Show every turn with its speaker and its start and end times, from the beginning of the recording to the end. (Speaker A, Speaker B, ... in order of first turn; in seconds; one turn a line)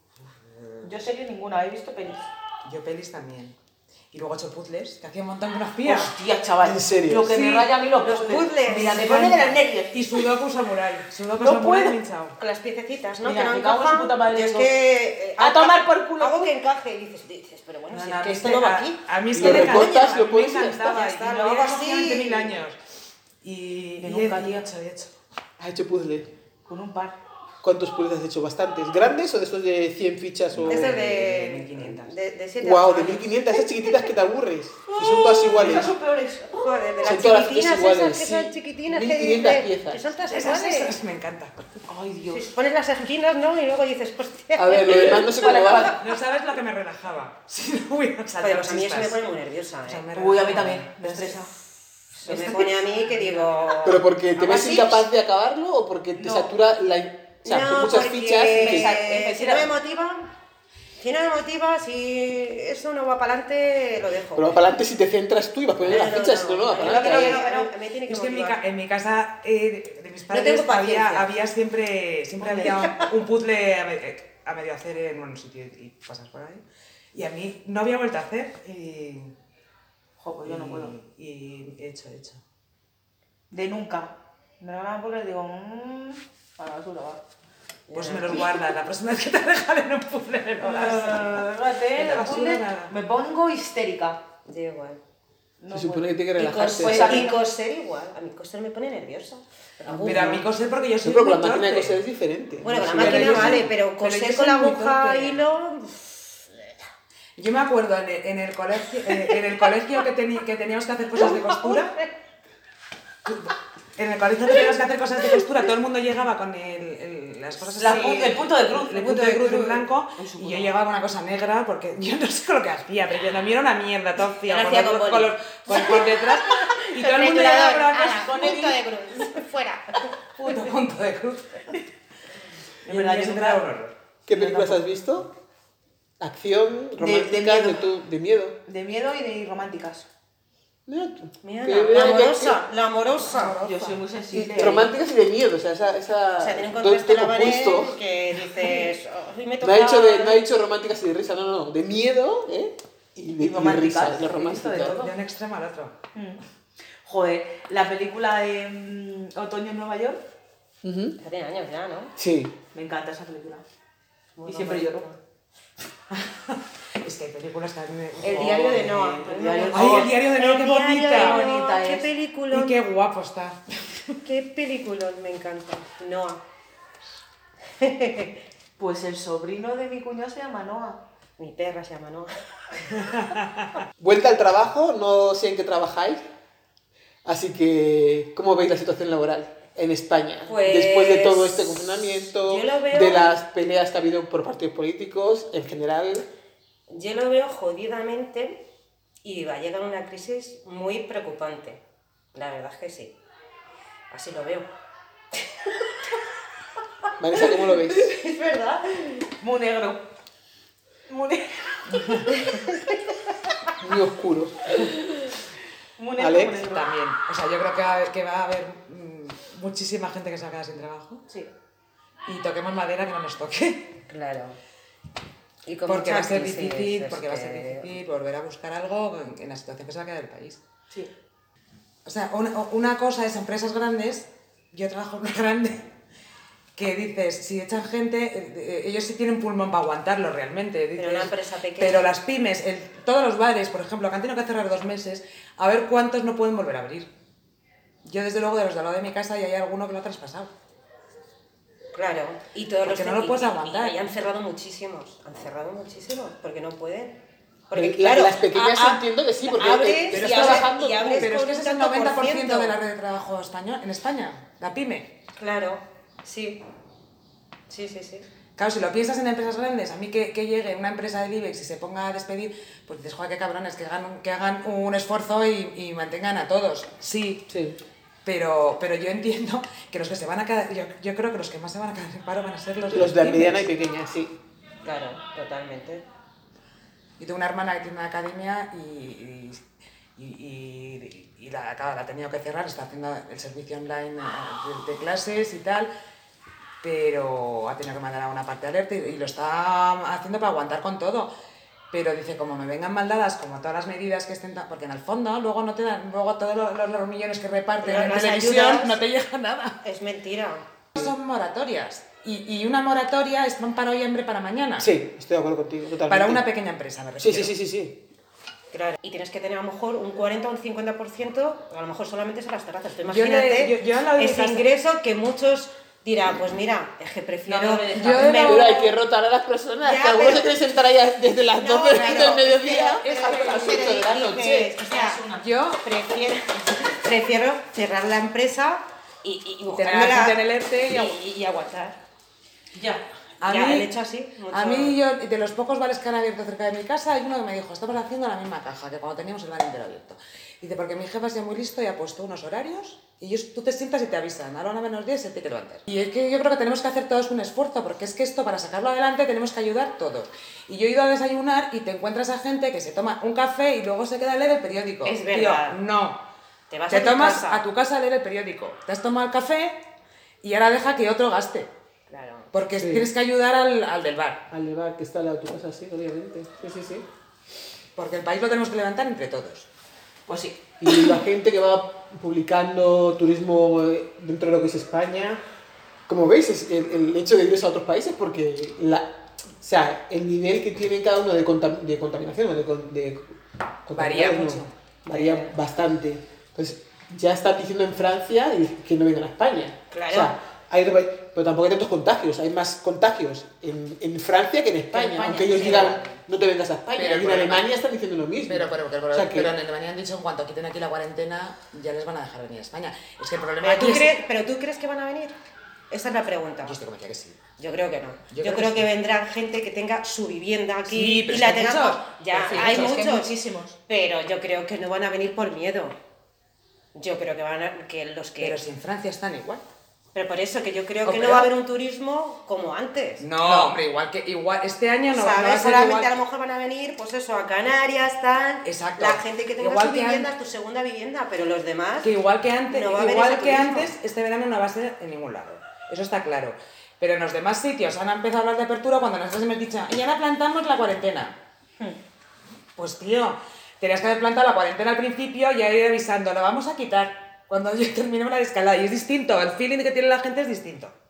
Speaker A: 0.3-1.0
Speaker B: 0.8-2.3
Speaker A: 2.6-3.5
Speaker A: 4.1-6.1
Speaker B: 5.8-10.3
Speaker C: 6.6-7.3
Speaker A: 7.3-7.7
Speaker D: 8.0-9.4
Speaker A: 8.7-12.4
Speaker B: 11.4-11.9
Speaker D: 12.4-20.1
Speaker B: 13.2-14.7
Speaker B: 15.4-16.5
Speaker A: 17.9-22.8
Speaker C: 19.3-20.8
Speaker B: 20.4-21.8
Speaker D: 20.8-22.6
Speaker A: 23.4-25.1
Speaker B: 24.0-24.7
Speaker C: 25.6-26.3
Speaker B: 26.6-27.2
Speaker C: 27.6-31.1
Speaker A: 30.6-32.1
Speaker D: 30.6-33.3
Speaker C: 32.6-35.9
Speaker B: 34.9-36.8
Speaker D: 36.6-40.9
Speaker C: 37.0-40.0
Speaker A: 40.2-41.6
Speaker B: 41.9-42.5
Speaker D: 42.3-45.9
Speaker C: 44.5-46.0
Speaker B: 44.9-46.0
Speaker A: 45.9-49.2
Speaker D: 48.4-50.0
Speaker A: 49.9-51.4
Speaker B: 50.1-51.5
Speaker D: 52.1-55.0
Speaker B: 52.2-52.8
Speaker A: 53.1-53.8
Speaker C: 53.8-58.9
Speaker B: 56.1-56.5
Speaker D: 57.4-60.3
Speaker B: 58.5-59.7
Speaker D: 61.0-64.6
Speaker C: 64.3-67.4
Speaker D: 65.8-68.6
Speaker B: 66.8-67.7
Speaker A: 68.1-76.6
Speaker D: 70.3-71.3
Speaker B: 72.4-72.9
Speaker A: 77.1-79.3
Speaker B: 80.2-80.9
Speaker A: 80.4-82.4
Speaker B: 83.5-87.2
Speaker D: 87.9-88.5
Speaker A: 87.9-92.9
Speaker B: 90.6-94.2
Speaker D: 94.5-95.0
Speaker B: 95.6-97.4
Speaker C: 95.7-97.2
Speaker D: 96.4-100.4
Speaker C: 99.9-100.4
Speaker A: 100.0-102.0
Speaker C: 101.0-103.7
Speaker D: 102.6-106.7
Speaker A: 102.9-105.4
Speaker A: 107.4-111.9
Speaker A: 113.2-128.6
Speaker B: 117.7-120.8
Speaker D: 117.9-118.2
Speaker D: 124.5-130.1
Speaker B: 125.7-126.0
Speaker B: 127.2-128.8
Speaker A: 130.3-131.8
Speaker A: 132.8-133.9
Speaker B: 132.8-133.6
Speaker C: 134.3-135.3
Speaker B: 134.3-134.8
Speaker C: 136.2-138.6
Speaker B: 137.0-137.8
Speaker B: 138.7-140.1
Speaker C: 140.9-142.6
Speaker D: 141.4-143.6
Speaker A: 143.2-144.0
Speaker B: 143.6-144.9
Speaker C: 144.3-147.9
Speaker D: 146.4-150.4
Speaker B: 148.6-148.9
Speaker C: 149.6-155.0
Speaker B: 153.4-155.1
Speaker A: 154.7-155.9
Speaker B: 156.1-156.4
Speaker B: 157.0-160.2
Speaker C: 160.8-161.2
Speaker D: 161.2-162.1
Speaker C: 162.2-162.5
Speaker B: 162.7-163.6
Speaker D: 164.3-165.2
Speaker B: 164.4-165.1
Speaker A: 166.1-168.8
Speaker D: 168.2-172.8
Speaker B: 168.4-170.1
Speaker A: 169.7-171.4
Speaker B: 171.1-172.1
Speaker A: 172.5-173.6
Speaker D: 174.2-176.4
Speaker D: 177.8-178.4
Speaker B: 178.8-181.0
Speaker D: 181.4-182.3
Speaker A: 183.0-183.7
Speaker C: 184.0-186.2
Speaker C: 187.2-196.2
Speaker D: 190.4-193.3
Speaker D: 196.9-198.6
Speaker D: 199.2-201.8
Speaker D: 202.3-203.2
Speaker D: 204.1-204.7
Speaker C: 207.2-208.1
Speaker D: 208.1-209.0
Speaker B: 209.4-210.0
Speaker B: 211.1-212.5
Speaker A: 211.9-212.3
Speaker D: 212.4-213.0
Speaker C: 213.8-214.8
Speaker B: 216.0-216.9
Speaker C: 216.2-216.6
Speaker A: 216.6-221.2
Speaker A: 222.2-223.9
Speaker D: 224.1-224.6
Speaker D: 225.7-227.9
Speaker A: 225.9-230.6
Speaker A: 232.0-235.9
Speaker A: 236.8-247.1
Speaker D: 240.9-242.1
Speaker A: 248.0-250.5
Speaker D: 251.9-262.8
Speaker A: 252.8-254.0
Speaker C: 257.7-261.2
Speaker A: 260.1-265.1
Speaker D: 265.4-266.6
Speaker D: 267.7-268.2
Speaker A: 268.6-277.4
Speaker C: 277.5-277.8
Speaker A: 278.2-283.6
Speaker C: 282.9-284.3
Speaker D: 284.8-286.0
Speaker A: 287.2-289.6
Speaker A: 290.2-295.9
Speaker A: 296.8-301.3
Speaker A: 301.9-309.8
Speaker D: 307.8-309.0
Speaker D: 309.8-310.6
Speaker A: 310.9-314.9
Speaker C: 314.8-316.4
Speaker A: 316.1-317.5
Speaker C: 317.2-318.0
Speaker D: 318.7-328.9
Speaker A: 323.1-324.6
Speaker B: 327.4-328.5
Speaker A: 327.9-328.8
Speaker C: 328.4-334.7
Speaker D: 329.8-330.5
Speaker D: 331.5-335.2
Speaker A: 331.9-333.9
Speaker B: 333.9-335.4
Speaker A: 335.4-335.8
Speaker D: 335.8-342.0
Speaker B: 339.8-341.2
Speaker B: 342.7-343.0
Speaker A: 343.4-343.9
Speaker D: 343.4-345.0
Speaker A: 344.5-366.2
Speaker D: 365.0-365.8
Speaker D: 366.7-367.6
Speaker A: 366.9-369.8
Speaker A: 370.4-371.7
Speaker D: 372.1-372.5
Speaker A: 372.5-374.4
Speaker C: 372.8-373.1
Speaker C: 374.5-377.1
Speaker A: 377.9-379.7
Speaker B: 380.3-381.0
Speaker C: 380.8-385.4
Speaker C: 386.1-393.3
Speaker C: 393.9-409.5
Speaker A: 393.9-394.7
Speaker D: 395.1-395.4
Speaker D: 399.9-400.3
Speaker B: 404.9-406.0
Speaker D: 405.0-406.1
Speaker A: 406.9-407.6
Speaker A: 408.5-414.2
Speaker D: 413.6-415.4
Speaker D: 415.9-416.8
Speaker A: 416.6-417.4
Speaker D: 417.6-423.3
Speaker A: 418.3-418.9
Speaker A: 420.9-423.0
Speaker B: 422.4-423.8
Speaker D: 423.9-425.9
Speaker D: 426.9-428.6
Speaker A: 428.4-429.6
Speaker D: 430.1-433.7
Speaker A: 431.0-431.5
Speaker A: 433.2-436.1
Speaker D: 435.1-442.1
Speaker A: 438.6-440.3
Speaker A: 442.0-451.4
Speaker D: 442.7-443.9
Speaker A: 452.8-460.9